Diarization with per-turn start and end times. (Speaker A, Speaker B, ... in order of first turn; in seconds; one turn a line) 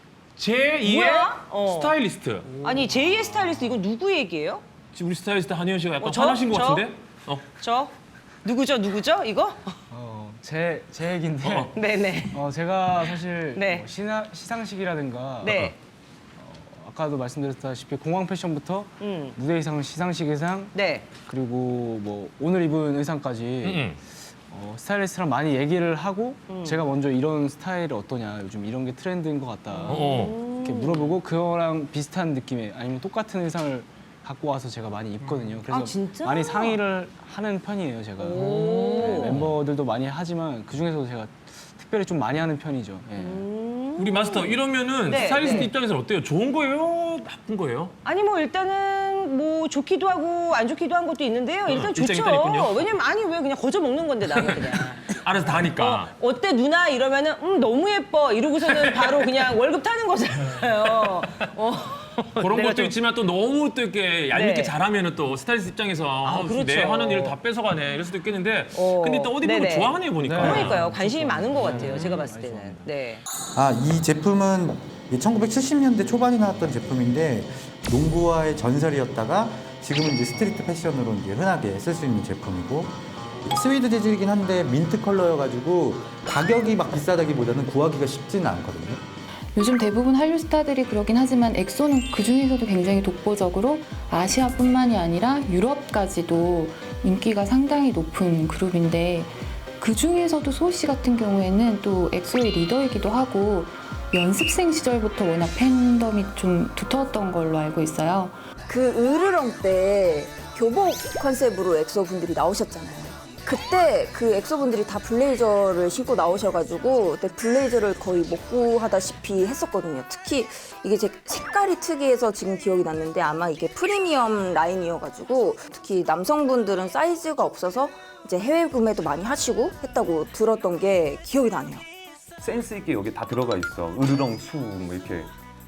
Speaker A: 0.4-2.6
Speaker B: 0.8-1.9
Speaker B: 2.6-4.6
Speaker A: 4.9-7.5
Speaker B: 6.0-6.9
Speaker B: 7.5-7.9
Speaker B: 8.4-9.8
Speaker C: 9.9-11.7
Speaker A: 11.4-11.7
Speaker B: 11.7-12.4
Speaker C: 12.3-15.6
Speaker B: 13.5-13.9
Speaker B: 15.4-15.8
Speaker A: 15.5-15.7
Speaker C: 16.4-20.7
Speaker B: 19.0-19.4
Speaker B: 20.7-21.1
Speaker C: 21.3-23.9
Speaker A: 23.6-24.0
Speaker C: 24.5-43.5
Speaker B: 26.5-26.8
Speaker B: 29.7-31.1
Speaker A: 29.9-30.4
Speaker B: 35.7-36.8
Speaker B: 38.2-39.4
Speaker A: 38.4-39.5
Speaker B: 43.2-45.7
Speaker A: 44.0-47.9
Speaker B: 48.0-55.2
Speaker A: 51.7-52.9
Speaker A: 54.3-56.1
Speaker B: 55.7-63.0
Speaker A: 58.6-59.4
Speaker A: 60.5-61.4
Speaker A: 62.4-70.9
Speaker B: 64.3-64.8
Speaker B: 66.2-67.3
Speaker B: 68.7-73.2
Speaker C: 70.2-72.9
Speaker D: 73.5-82.9
Speaker E: 83.5-89.0
Speaker D: 83.5-88.8
Speaker F: 89.6-108.4
Speaker G: 108.7-131.8
Speaker E: 132.4-135.3